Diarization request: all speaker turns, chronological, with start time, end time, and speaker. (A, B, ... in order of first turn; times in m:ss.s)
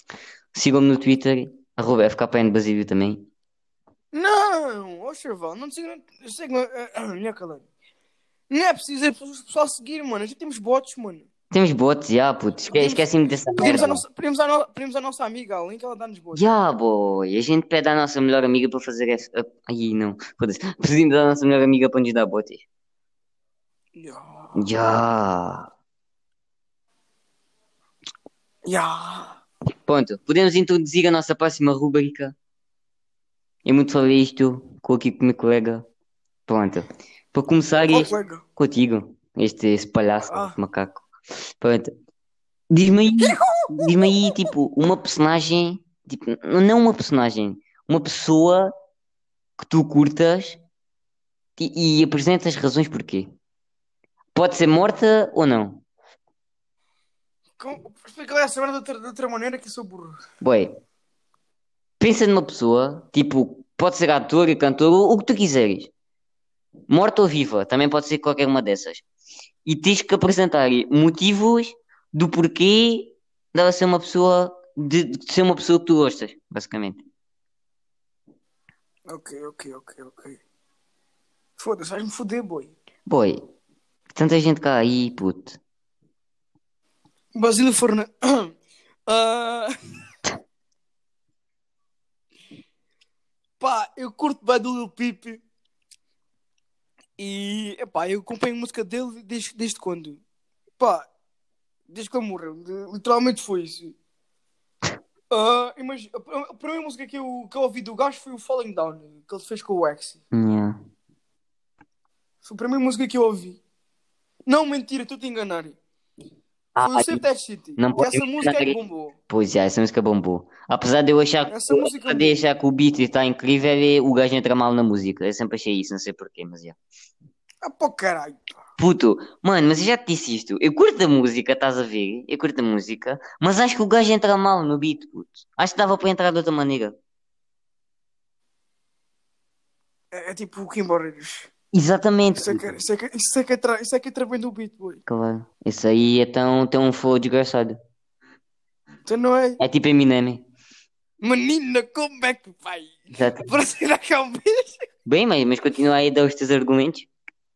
0:00.5-0:03.3 A
0:04.1-0:07.6 B
0:08.5-0:11.3 B
0:11.5-0:14.0 A
0:12.7-0:16.4 B
0:16.3-0:22.6 A
0:24.0-0:24.7 B
0:24.6-0:25.7 A
0:28.6-0:29.4 B
0:29.8-0:32.3 A
0:33.6-0:35.8 A
0:36.5-0:41.0 A
0:37.8-0:38.4 B
0:40.3-0:40.6 B
0:41.6-0:41.9 A
0:42.7-0:48.7 A
0:43.2-0:44.1 B
0:49.6-0:50.6 A
0:51.6-0:53.3 A
0:54.3-0:55.8 A
0:57.6-1:00.2 B
1:00.4-1:00.7 A
1:02.0-1:05.9 A
1:06.9-1:09.0 A
1:09.6-1:17.0 A
1:19.1-1:20.4 B
1:21.6-1:22.7 B
1:23.0-1:23.4 A
1:24.1-1:25.6 A
1:27.3-1:28.5 B
1:29.1-1:29.7 B
1:33.6-1:35.4 B
1:37.2-1:40.2 B
1:40.8-1:41.1 B
1:41.9-1:43.9 B
1:45.3-1:50.2 B
1:50.3-1:50.8 A
1:52.4-1:53.6 B
1:54.4-1:55.8 B
1:56.8-1:57.2 A
1:56.8-1:59.1 B
1:57.8-1:58.8 A
1:59.3-2:06.8 A
2:01.4-2:02.4 B
2:07.6-2:08.6 B
2:08.8-2:16.9 A
2:20.1-2:21.5 B
2:21.7-2:22.8 A
2:22.4-2:25.0 B
2:25.1-2:27.8 A
2:29.0-2:29.6 B
2:29.6-2:30.4 A
2:31.2-2:34.8 B
2:33.1-2:33.5 A
2:35.0-2:37.1 A